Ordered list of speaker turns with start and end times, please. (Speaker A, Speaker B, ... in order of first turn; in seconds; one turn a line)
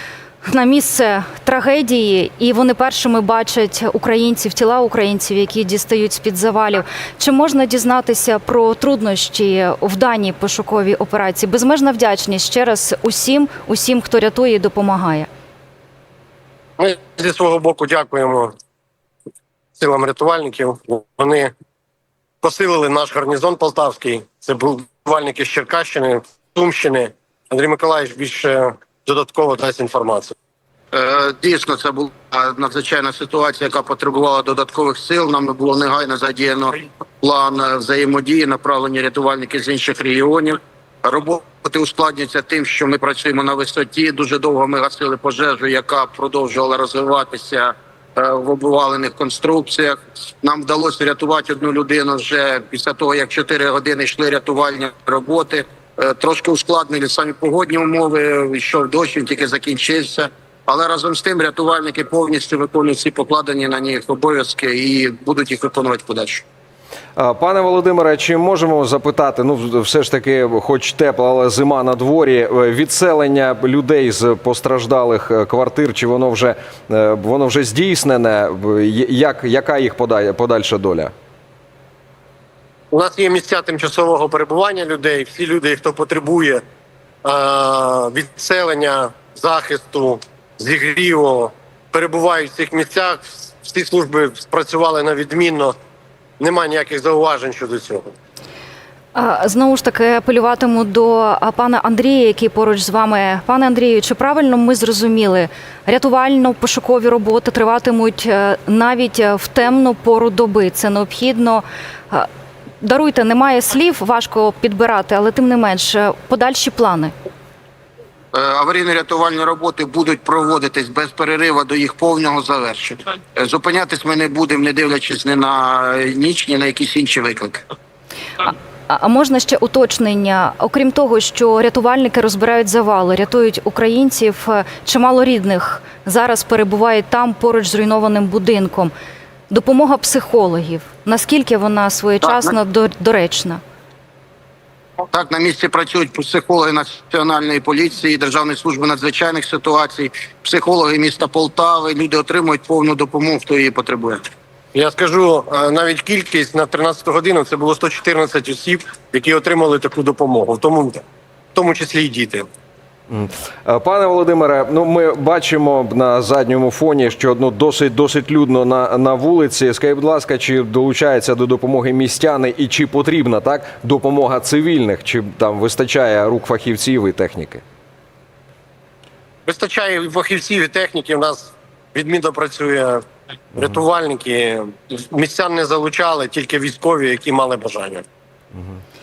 Speaker A: 0.4-15.3
Speaker B: 16.8-18.5
Speaker B: 19.8-21.5
Speaker B: 22.4-30.3
Speaker C: 30.9-66.4
Speaker D: 67.2-81.1
Speaker B: 82.9-86.6
Speaker B: 87.2-95.8
Speaker B: 96.4-98.1
Speaker A: 99.2-112.3
Speaker A: 112.8-117.1
Speaker C: 118.3-127.7
Speaker A: 128.4-138.9
Speaker A: 139.5-143.6
Speaker C: 142.2-142.5
Speaker C: 145.1-154.2
Speaker B: 154.7-161.0
Speaker B: 161.6-162.5
Speaker D: 163.1-177.6
Speaker B: 179.4-188.1